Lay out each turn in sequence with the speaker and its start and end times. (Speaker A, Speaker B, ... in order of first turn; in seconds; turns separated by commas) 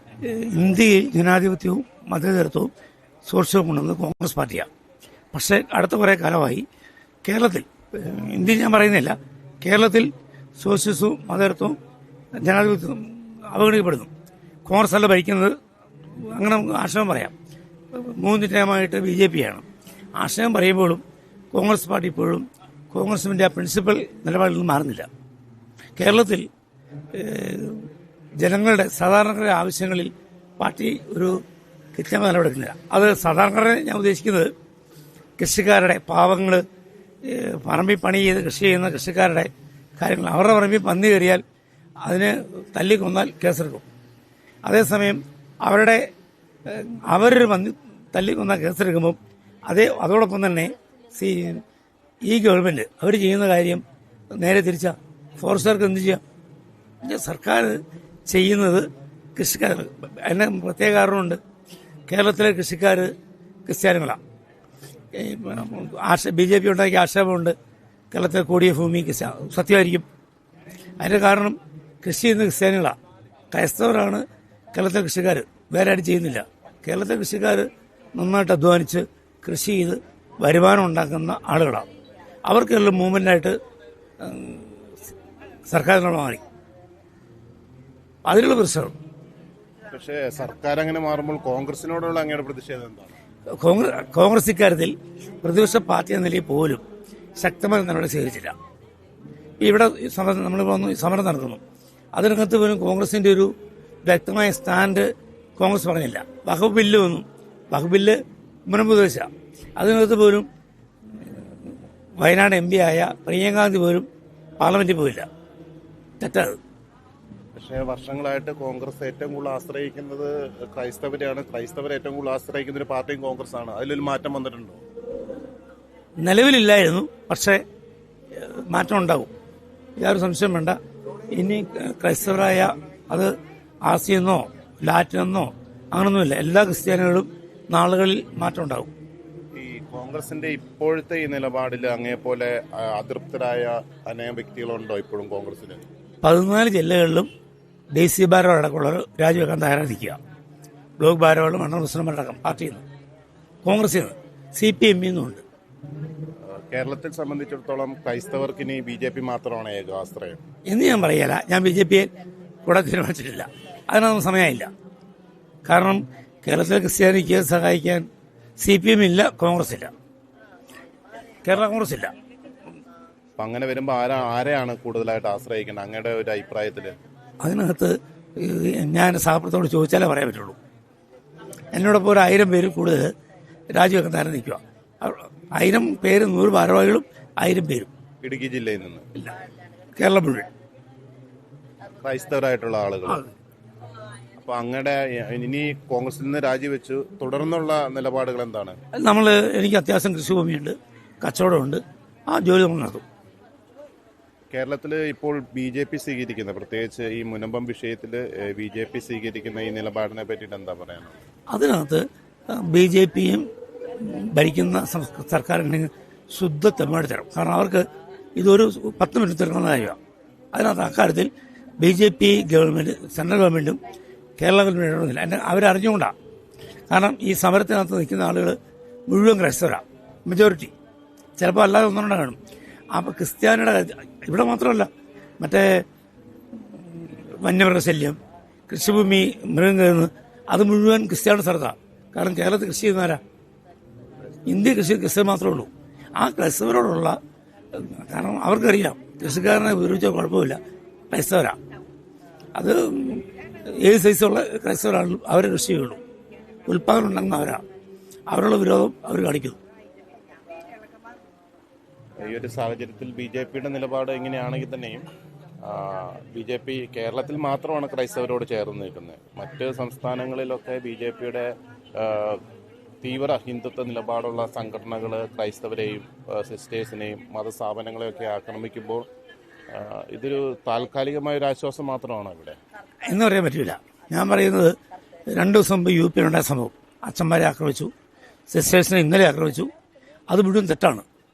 Speaker A: 0.2-2.7, Speaker A: 3.3-4.7, Speaker A: 5.3-6.6, Speaker A: 7.2-11.8, Speaker A: 12.4-14.1, Speaker A: 14.7-15.5, Speaker A: 16.2-17.3, Speaker A: 17.9-19.6, Speaker A: 20.2-21.0, Speaker A: 21.5-25.1, Speaker A: 26.0-26.5, Speaker A: 27.1-31.4, Speaker A: 31.9-34.5, Speaker A: 35.4-36.6, Speaker A: 37.2-41.4, Speaker A: 42.0-43.8, Speaker A: 44.6-46.0, Speaker A: 46.6-49.2, Speaker A: 49.7-51.6, Speaker A: 52.2-56.2, Speaker A: 57.0-61.4, Speaker A: 62.1-63.1, Speaker A: 63.6-64.2, Speaker A: 65.1-67.5, Speaker A: 68.1-70.0, Speaker A: 71.0-73.0, Speaker A: 73.5-81.9, Speaker A: 82.5-83.5, Speaker A: 84.2-85.0, Speaker A: 85.7-86.4, Speaker A: 88.3-89.0, Speaker B: 89.9-93.1, Speaker A: 93.6-96.8, Speaker A: 97.4-98.5, Speaker A: 99.6-101.6, Speaker A: 102.1-103.5, Speaker A: 104.0-108.2, Speaker A: 108.7-110.5, Speaker A: 111.1-114.1, Speaker A: 114.6-115.3, Speaker A: 116.2-116.6, Speaker B: 117.5-124.8, Speaker A: 126.2-127.6, Speaker A: 128.3-129.3, Speaker A: 130.0-130.8, Speaker A: 131.3-133.3, Speaker A: 133.8-138.9, Speaker B: 139.5-145.8, Speaker A: 146.2-147.3, Speaker A: 147.9-150.2, Speaker A: 151.0-152.8, Speaker A: 153.6-155.4, Speaker B: 156.4-160.4, Speaker A: 160.7-162.1, Speaker A: 162.7-164.7, Speaker A: 165.6-168.1, Speaker A: 168.6-169.9, Speaker A: 171.4-172.1, Speaker B: 173.4-176.9, Speaker A: 177.4-180.6, Speaker A: 181.7-183.1, Speaker A: 183.7-187.9, Speaker B: 188.2-189.1, Speaker A: 189.9-190.5, Speaker B: 192.0-193.2, Speaker A: 193.1-193.3, Speaker B: 194.4-198.8, Speaker A: 198.9-203.0, Speaker B: 204.5-211.1, Speaker A: 211.5-217.8, Speaker A: 218.4-220.0, Speaker A: 220.5-223.8, Speaker A: 224.4-226.1, Speaker A: 226.9-228.6, Speaker A: 229.1-230.7, Speaker A: 231.4-232.4, Speaker A: 232.9-234.9, Speaker A: 235.4-235.8, Speaker A: 236.5-238.2, Speaker A: 238.7-243.2, Speaker A: 244.4-247.2, Speaker A: 247.7-250.6, Speaker A: 251.1-251.6, Speaker A: 252.6-256.0, Speaker A: 256.7-257.6, Speaker A: 258.3-259.6, Speaker B: 262.2-265.1, Speaker B: 265.6-272.4, Speaker B: 273.0-279.0, Speaker B: 279.7-282.6, Speaker A: 283.0-284.7, Speaker A: 285.3-287.9, Speaker A: 288.5-289.7, Speaker A: 290.3-291.0